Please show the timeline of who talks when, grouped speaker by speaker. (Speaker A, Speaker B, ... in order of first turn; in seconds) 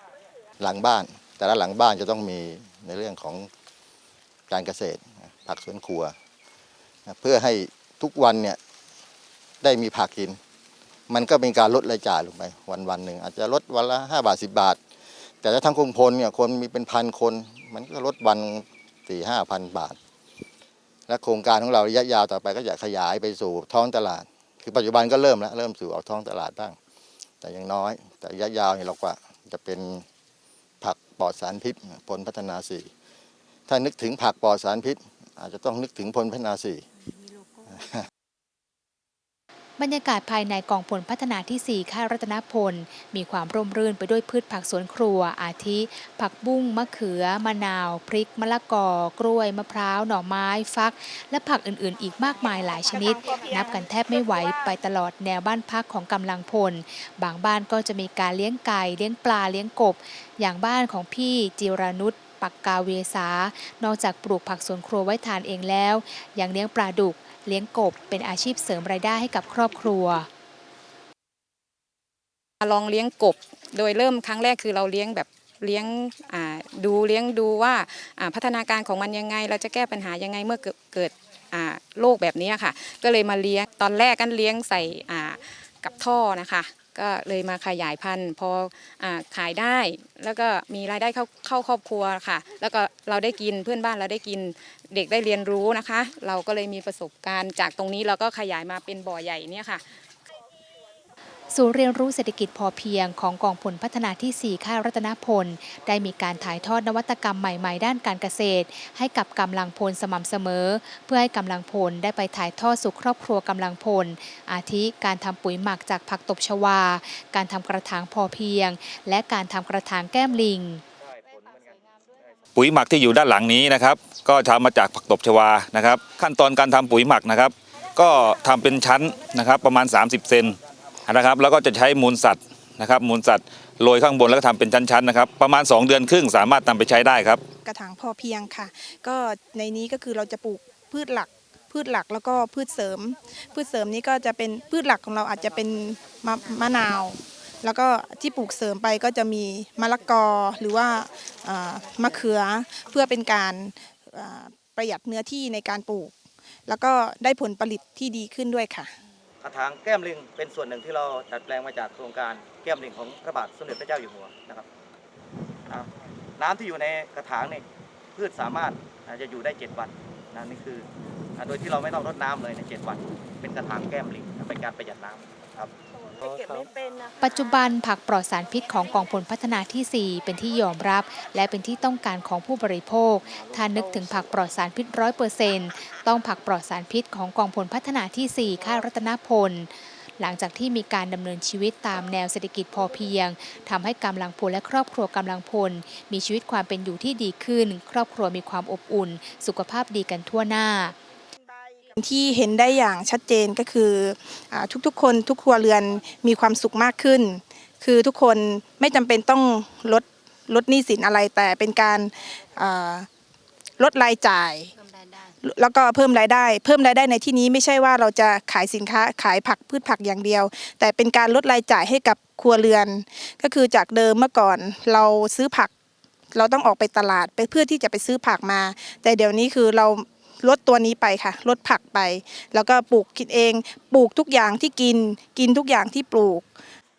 Speaker A: 0.6-3.5, 4.5-6.1, 7.1-8.6, 9.6-10.4, 11.1-14.8, 15.4-20.0, 21.1-26.8, 27.4-30.0, 30.8-32.9, 33.7-36.8
Speaker B: 39.8-70.3, 101.5-120.8, 177.2-200.9
Speaker C: 53.2-53.6, 137.6-156.1, 156.7-158.9, 201.9-213.1, 213.8-214.7, 215.2-225.7, 226.3-236.5
Speaker D: 72.6-99.8
Speaker E: 121.0-122.3, 159.4-164.7, 165.7-175.7, 176.2-176.7
Speaker F: 122.5-137.4